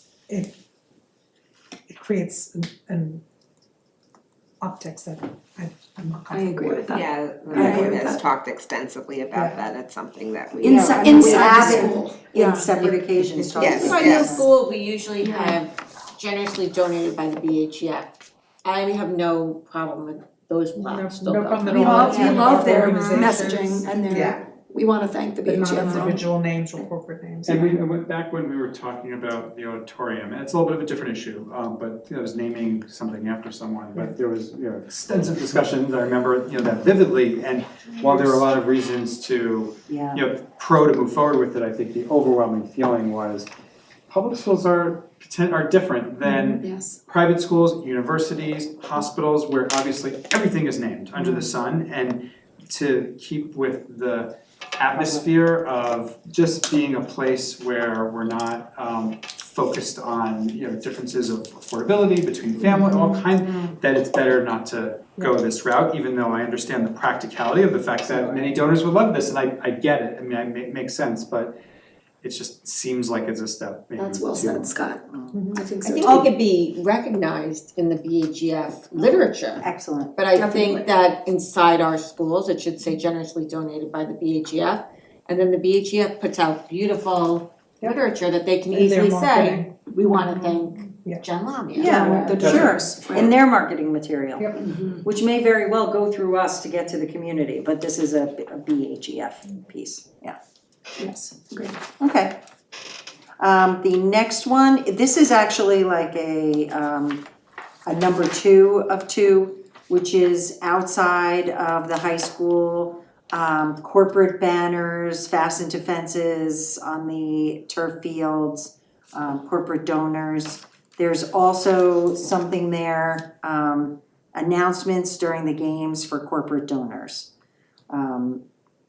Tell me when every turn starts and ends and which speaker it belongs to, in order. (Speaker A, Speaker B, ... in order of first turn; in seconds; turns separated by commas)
Speaker A: 0.3-0.6, Speaker A: 1.9-3.2, Speaker A: 4.6-6.9, Speaker B: 6.3-8.2, Speaker C: 6.8-11.9, Speaker D: 7.5-7.9, Speaker A: 9.3-9.6, Speaker B: 10.6-12.7, Speaker D: 10.6-14.5, Speaker E: 12.8-18.1, Speaker C: 13.6-14.4, Speaker B: 15.2-15.6, Speaker E: 18.6-23.2, Speaker A: 20.8-24.4, Speaker B: 21.7-26.2, Speaker D: 21.8-22.6, Speaker A: 25.4-27.8, Speaker F: 27.4-43.5, Speaker D: 39.9-40.2, Speaker F: 44.1-71.5, Speaker B: 46.2-47.0, Speaker D: 68.1-68.5, Speaker F: 72.2-74.7, Speaker B: 74.0-75.0, Speaker A: 75.3-75.6, Speaker B: 75.5-76.3, Speaker E: 75.8-79.6, Speaker D: 79.0-80.1, Speaker E: 80.1-92.5, Speaker B: 80.3-80.9, Speaker A: 88.7-89.7, Speaker B: 89.9-90.6, Speaker D: 91.7-100.4, Speaker B: 91.8-93.3, Speaker F: 92.4-92.7, Speaker B: 94.6-95.0, Speaker B: 101.0-101.8, Speaker D: 102.0-102.4, Speaker D: 103.4-107.2, Speaker D: 107.8-127.3, Speaker D: 127.9-128.4